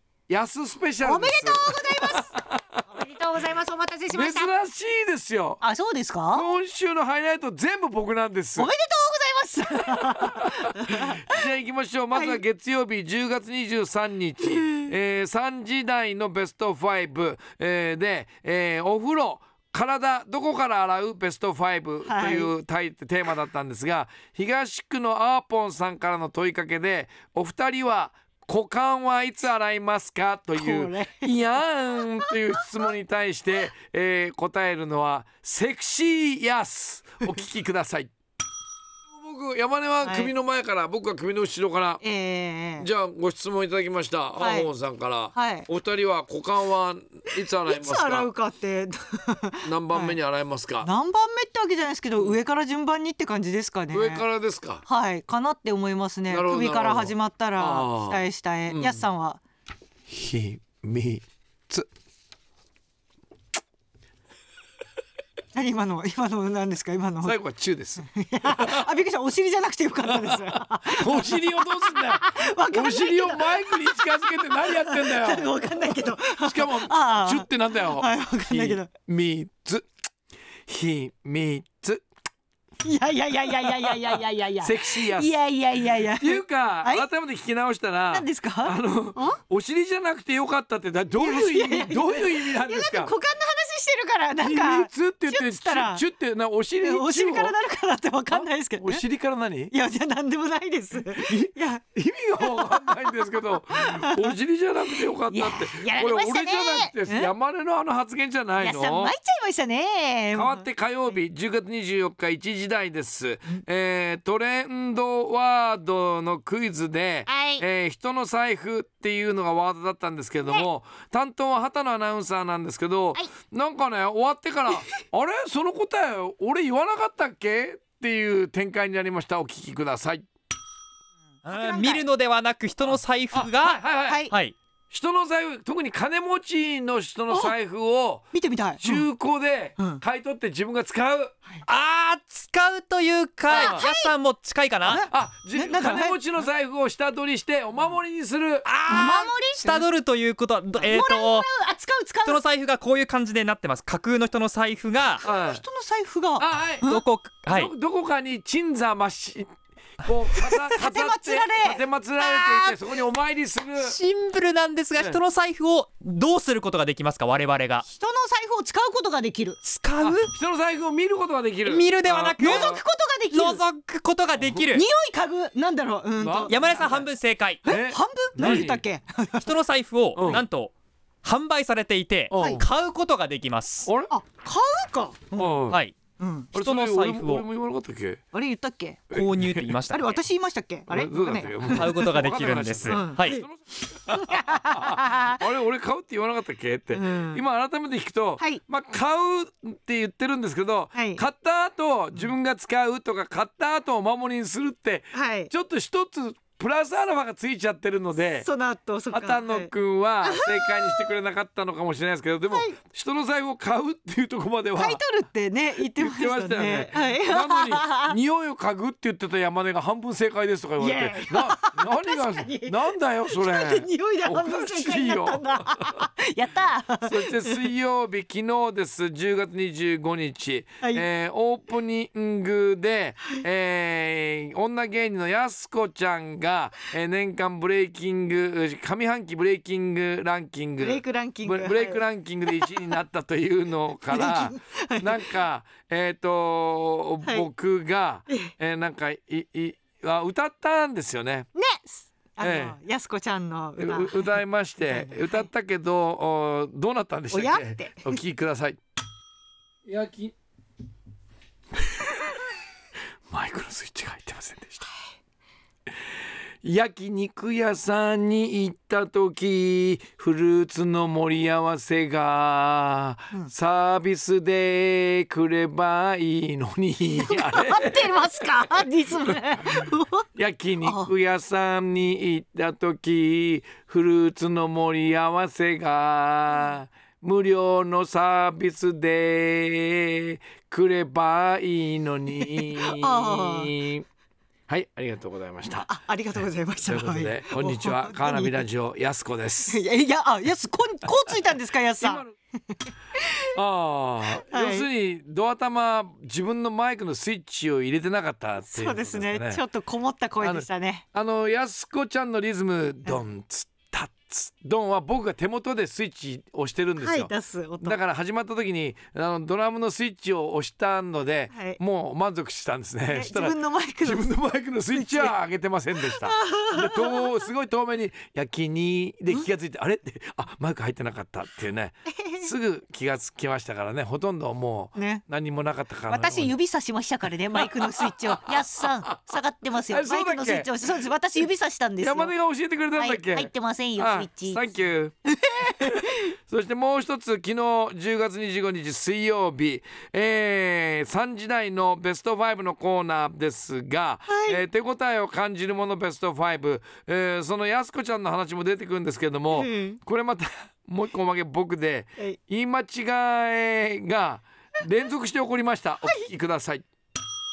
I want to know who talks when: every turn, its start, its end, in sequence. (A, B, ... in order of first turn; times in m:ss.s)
0:00.3-0:02.8 A
0:01.0-0:02.3 B
0:02.9-0:04.5 B
0:04.1-0:05.6 A
0:05.6-0:06.4 B
0:06.3-0:08.7 A
0:08.6-0:11.4 B
0:09.7-0:38.1 A
0:12.1-0:12.4 B
0:14.6-0:14.8 B
0:22.0-0:22.5 B
0:30.5-0:31.4 B
0:32.3-0:32.6 B
0:39.1-0:42.0 A
0:40.0-0:40.3 B
0:42.0-0:42.9 B
0:42.8-0:48.3 A
0:44.4-0:44.7 B
0:45.3-0:45.7 B
0:47.6-0:50.2 B
0:49.6-0:50.9 A
0:50.8-0:54.2 B
0:53.9-0:54.8 A
0:54.8-0:59.4 B
0:56.3-0:59.0 A
1:00.1-1:01.9 A
1:05.5-1:07.4 B
1:07.2-1:08.8 A
1:08.0-1:18.9 B
1:10.1-1:19.8 A
1:20.7-1:22.0 A
1:22.8-1:27.0 B
1:24.6-1:25.3 A
1:26.2-1:33.1 A
1:28.1-1:29.4 B
1:31.2-1:36.0 B
1:34.4-1:37.6 A
1:36.8-1:39.0 B
1:38.3-1:39.7 A
1:39.7-1:41.8 B
1:41.1-1:49.1 A
1:42.4-1:43.1 B
1:43.8-1:44.3 B
1:45.3-1:47.3 B
1:48.6-1:50.6 B
1:50.3-2:10.2 A
2:11.4-2:14.5 C
2:11.5-2:12.0 B
2:13.3-2:14.2 A
2:14.0-2:14.3 B
2:14.9-2:18.3 A
2:18.3-2:19.0 B
2:18.8-2:21.3 A
2:21.6-2:25.0 C
2:23.5-2:24.1 B
2:23.5-2:23.8 A
2:24.8-2:26.2 B
2:25.1-2:28.6 A
2:28.6-2:31.5 C
2:28.9-2:29.8 B
2:30.8-2:32.4 B
2:32.2-2:35.2 C
2:35.2-2:37.0 B
2:35.2-2:35.6 A
2:36.4-2:36.9 A
2:36.8-2:37.7 C
2:37.5-2:44.0 A
2:40.3-2:42.8 B
2:43.8-2:47.8 C
2:45.0-2:45.2 A
2:47.9-2:49.6 B
2:49.6-2:50.3 C
2:50.0-2:52.8 A
2:51.6-2:52.8 C
2:52.4-2:53.6 B
2:53.3-2:54.8 C
2:54.7-2:57.0 B
2:56.2-2:57.1 A
2:56.5-2:57.6 C
2:57.6-2:59.5 B
2:57.6-2:58.8 A
2:58.4-2:58.7 C
2:59.4-3:03.9 C
3:00.1-3:00.4 A
3:02.3-3:02.6 A
3:02.3-3:02.6 B
3:03.8-3:04.1 A
3:04.1-3:05.5 B
3:05.4-3:05.8 A
3:05.7-3:06.0 C
3:06.2-3:06.5 B
3:06.5-3:08.2 A
3:06.5-3:07.4 C
3:08.3-3:09.1 B
3:09.1-3:09.7 A
3:09.1-3:10.2 C
3:09.9-3:12.2 B
3:10.9-3:28.5 A
3:11.7-3:13.4 C
3:12.9-3:13.4 B
3:14.0-3:15.4 B
3:16.9-3:17.4 B
3:20.9-3:21.2 B
3:25.1-3:25.5 B
3:28.4-3:29.7 B
3:29.1-3:35.0 A
3:30.2-3:31.0 B
3:32.5-3:32.8 B
3:34.8-3:38.2 B
3:36.0-3:46.1 A
3:40.8-3:42.8 B
3:43.3-3:47.6 B
3:47.0-4:11.5 A
4:00.8-4:02.7 B
4:04.1-4:05.4 B
4:11.5-4:15.5 B
4:12.4-4:12.8 A
4:13.8-4:18.8 A
4:17.3-4:18.1 B
4:19.8-4:20.3 A
4:23.3-4:24.9 A
4:26.6-4:38.8 A
4:37.2-4:40.2 B
4:39.6-4:54.0 A
4:40.8-4:41.1 B
4:52.4-4:53.7 B
4:54.7-4:55.9 A
4:55.8-4:58.6 B
4:56.8-4:59.8 A
4:59.7-5:03.5 B
5:02.0-5:02.3 A
5:03.5-5:09.6 A
5:04.3-5:04.9 B
5:08.6-5:11.0 B
5:10.4-5:36.6 A
5:17.0-5:18.0 B
5:21.5-5:21.8 B
5:23.1-5:24.3 B
5:24.9-5:25.3 B
5:26.0-5:27.3 B
5:32.1-5:32.5 B
5:34.9-5:35.2 B
5:36.1-5:42.3 B
5:37.6-5:39.3 A
5:39.9-5:40.7 A
5:42.0-5:45.1 A
5:42.9-5:44.8 B
5:45.3-5:46.2 B
5:45.6-6:06.8 A
5:54.3-5:54.6 B
5:59.5-6:00.0 B